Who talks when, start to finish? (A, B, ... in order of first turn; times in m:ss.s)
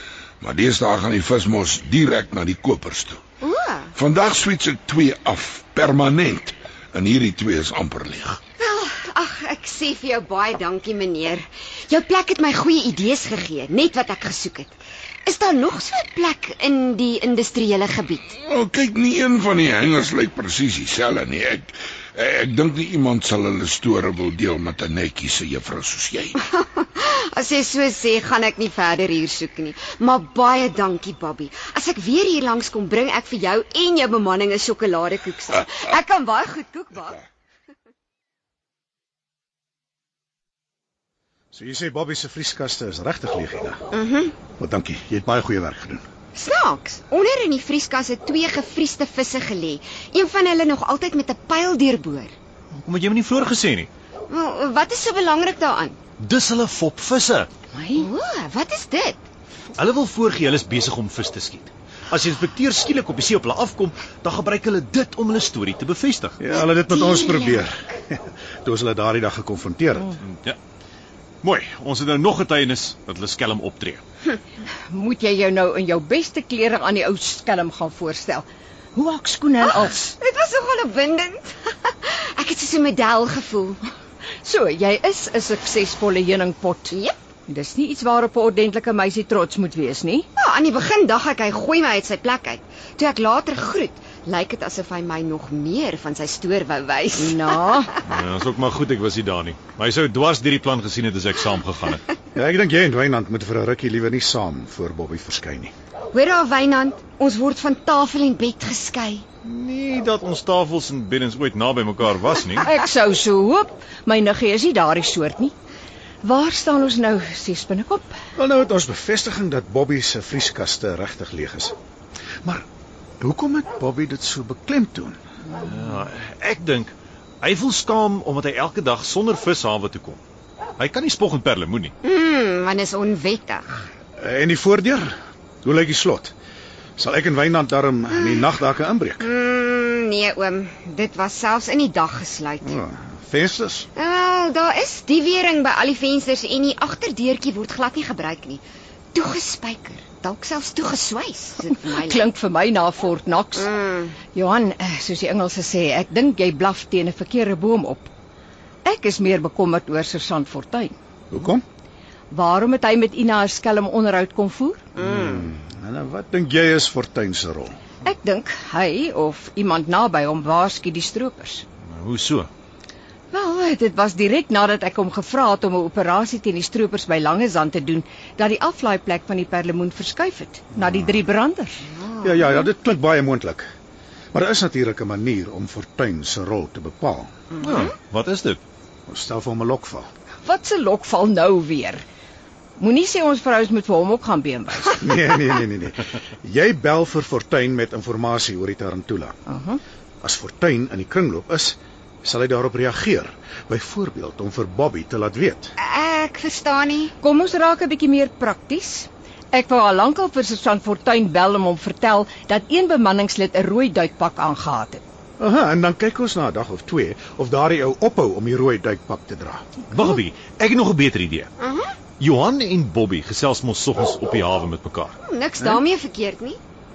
0:00.4-0:03.2 A
0:03.4-0:03.9 B
0:03.9-0:08.4 A
0:08.6-0:18.3 B
0:18.4-0:26.4 A
0:26.4-0:37.2 B
0:41.5-0:43.8 C
0:43.9-0:44.4 B
0:44.6-0:46.0 C
0:46.3-0:52.3 B
0:52.7-0:53.9 D
0:54.3-0:56.0 B
0:56.2-0:57.5 D
0:57.7-0:58.1 E
0:58.0-0:59.2 B
0:59.7-1:06.4 D
1:06.4-1:10.2 C
1:06.6-1:07.7 B
1:10.2-1:10.6 D
1:11.4-1:14.0 D
1:14.9-1:20.1 E
1:19.6-1:23.8 B
1:24.4-1:26.9 E
1:26.9-1:27.2 B
1:27.5-1:30.3 E
1:30.4-1:37.8 B
1:37.2-1:37.9 E
1:38.0-1:42.0 D
1:42.3-1:45.7 C
1:46.1-1:49.2 B
1:49.4-1:52.7 D
1:52.6-1:55.5 E
1:56.2-1:58.2 E
1:58.4-2:01.7 C
2:03.2-2:05.2 C
2:05.6-2:10.2 D
2:10.8-2:11.9 D
2:12.0-2:13.8 B
2:14.2-2:16.3 C
2:17.0-2:19.3 C
2:18.1-2:18.5 B
2:19.2-2:22.8 B
2:22.6-2:23.9 C
2:24.0-2:28.6 B
2:29.1-2:32.3 B
2:31.8-2:33.7 E
2:33.6-2:34.2 B
2:34.3-2:38.1 E
2:38.8-2:40.9 E
2:41.3-2:41.6 C
2:42.3-2:44.8 E
2:45.0-2:45.4 B
2:45.0-2:47.8 C
2:48.0-2:51.6 E
2:51.8-2:52.5 D
2:53.3-3:01.8 E
3:01.9-3:02.5 B
3:02.2-3:03.7 C
3:04.3-3:07.4 C
3:07.6-3:08.6 D
3:09.1-3:10.1 C
3:10.4-3:12.0 E
3:12.8-3:15.0 E
3:14.9-3:19.4 C
3:19.5-3:19.8 E
3:20.2-3:25.7 C
3:25.8-3:27.1 B
3:27.2-3:35.0 E
3:35.4-3:39.8 C
3:39.9-3:41.5 D
3:41.6-3:42.0 B
3:42.2-3:45.2 D
3:45.2-3:46.6 B